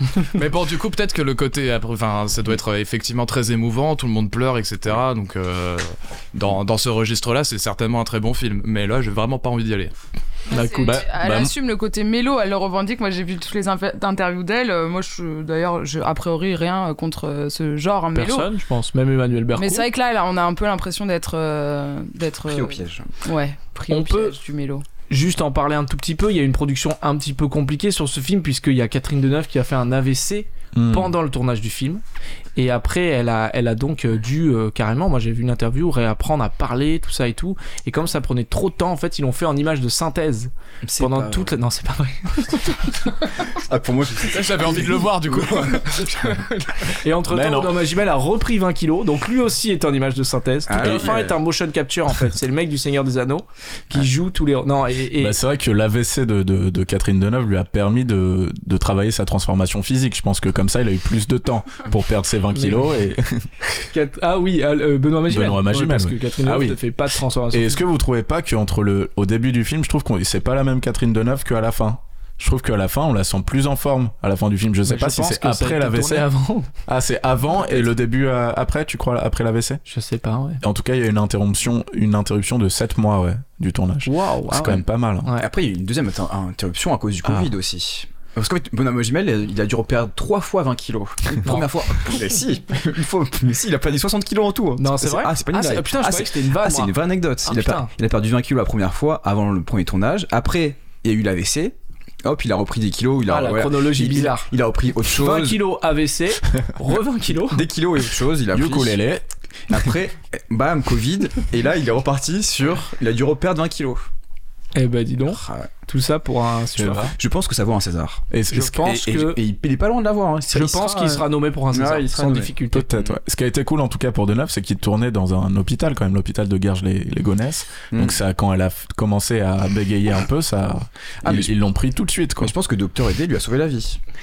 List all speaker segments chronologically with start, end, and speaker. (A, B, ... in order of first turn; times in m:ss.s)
0:00.3-0:09.9 A
0:10.5-0:18.5 B
0:10.5-0:11.0 C
0:10.5-0:11.5 D
0:18.1-0:19.9 C
0:19.6-0:24.8 B
0:22.5-0:23.1 E
0:23.9-0:24.4 C
0:25.1-0:32.0 C
0:30.7-0:31.1 D
0:32.6-0:43.0 C
0:40.8-0:41.5 E
0:43.4-0:47.0 E
0:44.2-0:46.4 A
0:47.0-0:55.4 C
0:47.3-0:47.8 D
0:50.7-0:51.4 E
0:55.2-1:03.5 D
1:02.5-1:02.8 C
1:03.9-1:07.8 C
1:05.3-1:06.8 D
1:07.5-1:16.3 D
1:14.8-1:16.7 C
1:16.8-1:19.8 D
1:19.9-1:20.6 C
1:20.6-1:25.3 D
1:24.0-1:25.5 C
1:25.4-1:45.6 E
1:27.2-1:27.5 D
1:34.8-1:37.9 C
1:43.3-1:44.5 C
1:45.1-1:47.7 C
1:47.5-1:49.0 E
1:48.5-1:49.2 D
1:49.7-1:54.1 E
1:54.7-1:57.1 C
1:55.3-1:55.7 E
1:56.8-1:57.1 D
1:57.0-2:03.2 E
1:58.3-1:59.1 D
1:58.5-1:59.4 C
2:00.5-2:02.9 C
2:02.7-2:12.5 D
2:07.9-2:08.2 E
2:11.2-2:11.5 E
2:12.4-2:14.0 E